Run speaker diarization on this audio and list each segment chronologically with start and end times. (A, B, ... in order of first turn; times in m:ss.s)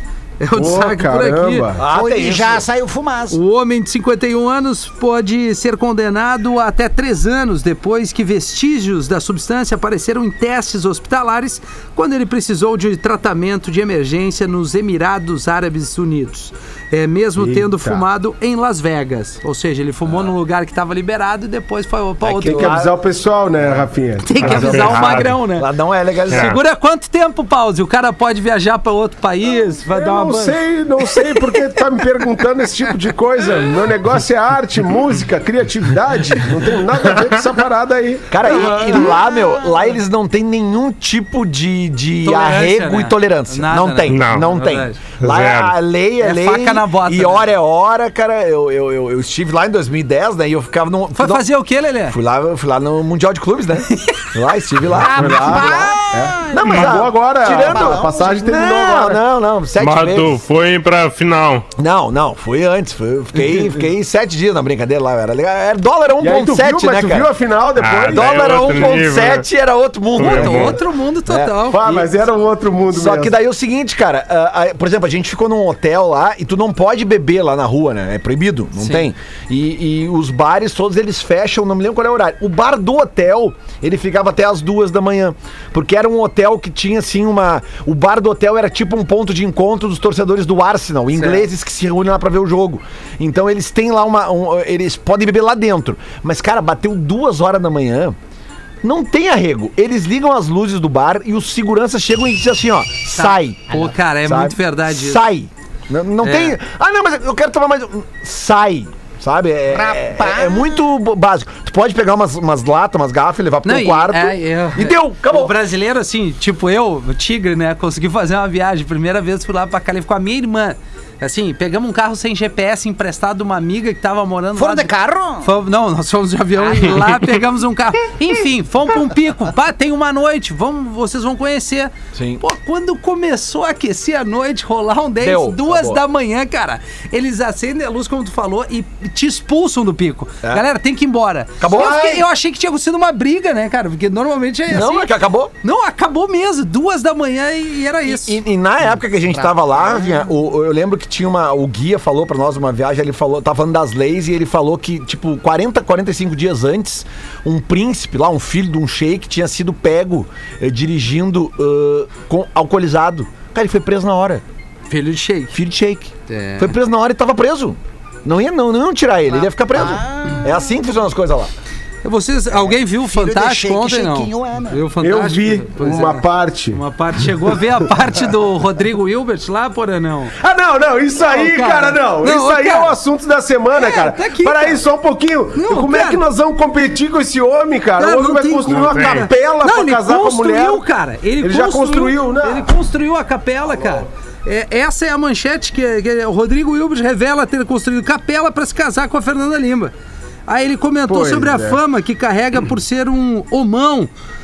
0:00.4-0:01.7 A
0:00.5-0:01.8 B
0:01.8-0:02.6 C
0:01.9-0:03.4 D
0:03.3-0:22.8 A
0:17.4-0:18.0 B
0:22.2-0:23.0 C
0:22.5-0:25.1 B
0:24.2-0:25.7 A
0:24.4-0:25.4 E
0:24.9-0:26.6 C
0:26.3-0:32.1 A
0:26.3-0:26.6 E
0:29.8-0:39.1 B
0:38.3-0:51.5 C
0:38.5-0:39.9 D
0:38.7-0:39.0 A
0:42.2-0:45.0 A
0:44.1-0:44.5 E
0:45.2-0:45.8 E
0:46.2-0:47.5 A
0:51.2-0:52.2 A
0:52.1-1:00.4 C
0:54.9-0:58.8 D
0:55.0-0:59.2 B
0:59.8-1:01.6 E
1:01.8-1:07.3 C
1:06.2-1:09.0 B
1:07.8-1:09.5 E
1:07.9-1:11.5 C
1:10.2-1:10.8 E
1:10.2-1:12.1 A
1:11.6-1:13.3 B
1:12.9-1:38.2 C
1:18.8-1:19.1 A
1:31.2-1:31.5 A
1:38.8-1:55.6 C
1:43.1-1:45.2 A
1:46.2-1:46.6 A
1:49.7-1:50.8 D
1:53.6-2:04.9 A
2:04.6-2:05.5 D
2:05.4-2:25.1 A
2:12.2-2:12.4 C
2:15.2-2:16.0 C
2:21.6-2:22.2 C
2:24.7-2:25.5 C
2:25.6-2:28.4 A
2:28.0-2:44.4 C
2:29.3-2:30.3 D
2:44.9-2:45.6 A
2:45.5-2:51.5 C
2:46.3-2:46.7 A
2:49.3-2:50.8 D
2:52.0-3:00.3 A
2:52.5-2:54.8 D
2:55.0-2:56.8 B
3:00.4-3:10.8 B
3:01.2-3:03.0 A
3:03.7-3:04.8 A
3:05.6-3:06.2 A
3:08.0-3:19.9 A
3:08.7-3:09.3 E
3:11.4-3:12.7 B
3:20.5-3:24.1 A
3:21.1-3:21.8 B